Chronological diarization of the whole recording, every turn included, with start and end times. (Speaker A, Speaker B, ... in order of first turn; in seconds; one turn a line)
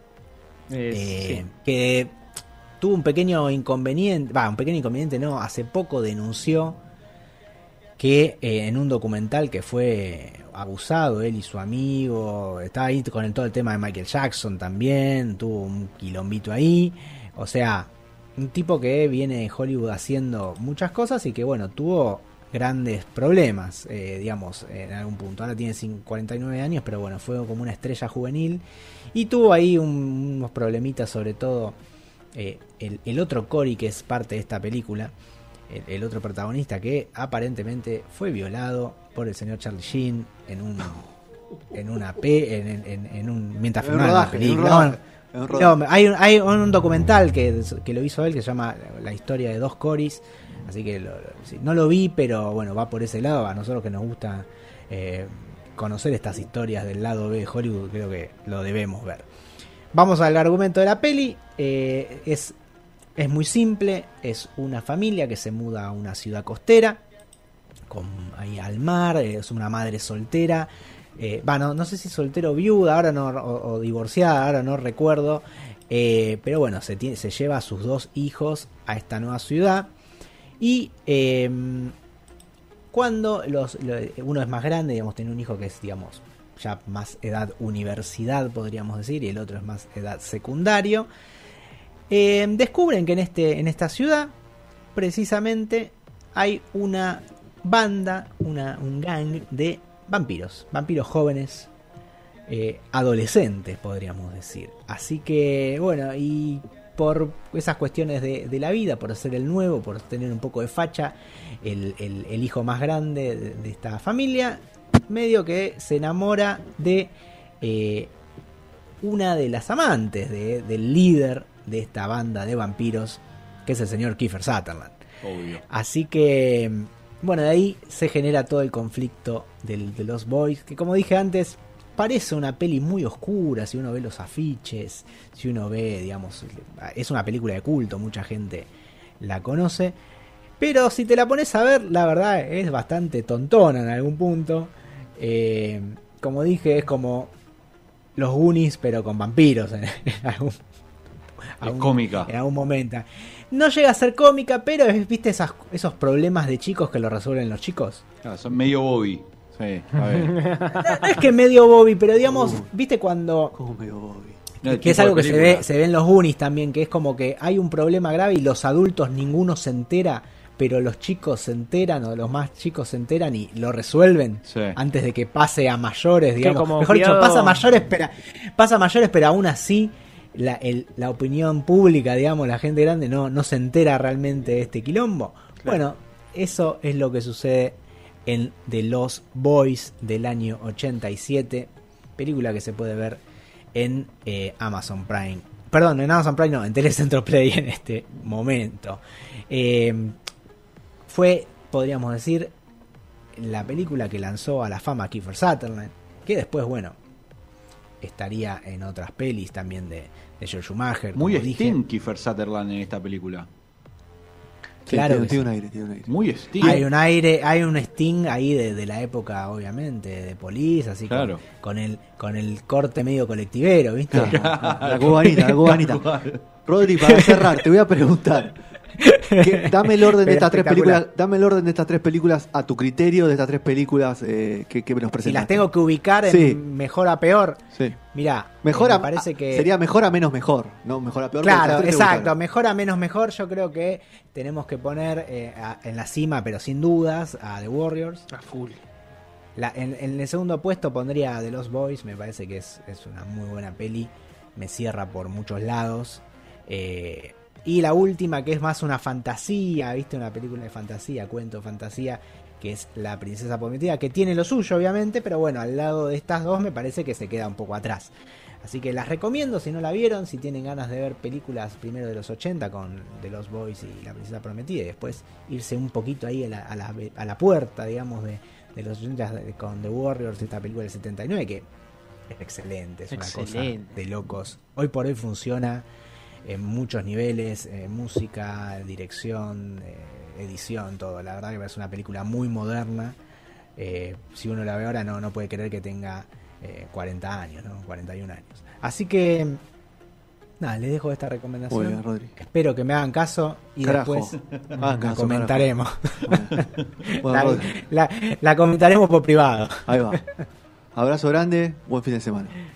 Speaker A: 0.7-1.4
Speaker B: 0.9-2.2
Speaker B: 2.8-6.8
Speaker B: 8.0-28.6
Speaker B: 29.1-31.8
Speaker B: 32.3-35.1
Speaker B: 35.7-41.1
Speaker B: 41.7-59.3
Speaker C: 43.8-45.8
Speaker B: 59.9-62.6
Speaker B: 63.2-67.0
Speaker B: 67.9-79.9
Speaker B: 80.6-81.9
Speaker B: 82.9-91.1
Speaker B: 92.1-94.3
Speaker B: 95.0-101.7
Speaker B: 102.5-118.1
Speaker B: 119.0-125.0
Speaker D: 125.2-125.6
Speaker B: 125.7-140.0
Speaker B: 140.6-147.3
Speaker B: 148.2-150.6
Speaker B: 151.6-158.1
Speaker D: 151.6-152.3
Speaker D: 158.2-160.4
Speaker A: 160.1-161.2
Speaker B: 160.8-163.6
Speaker C: 162.2-162.7
Speaker C: 163.6-164.4
Speaker D: 164.6-165.7
Speaker B: 164.6-193.2
Speaker D: 174.5-174.8
Speaker A: 176.4-177.6
Speaker B: 193.7-200.2
Speaker B: 201.1-202.5
Speaker B: 203.3-207.0
Speaker B: 208.0-211.8
Speaker D: 211.1-213.5
Speaker B: 214.9-215.5
Speaker C: 214.9-216.1
Speaker D: 216.1-216.9
Speaker B: 216.6-225.2
Speaker D: 221.1-221.4
Speaker C: 224.1-228.6
Speaker D: 224.3-226.4
Speaker B: 227.1-227.5
Speaker B: 229.0-231.0
Speaker C: 229.4-235.7
Speaker B: 235.2-239.7
Speaker C: 236.3-236.6
Speaker C: 238.6-242.3
Speaker B: 241.4-248.3
Speaker A: 248.3-248.8
Speaker B: 249.6-268.1
Speaker B: 268.6-281.7
Speaker B: 282.3-285.9
Speaker A: 283.1-284.0
Speaker B: 286.4-293.2
Speaker B: 293.8-299.6
Speaker B: 300.6-306.7
Speaker C: 301.7-302.3
Speaker C: 303.8-305.7
Speaker C: 306.3-306.6
Speaker C: 307.2-307.8
Speaker B: 307.2-310.4
Speaker C: 309.9-310.2
Speaker C: 310.9-312.6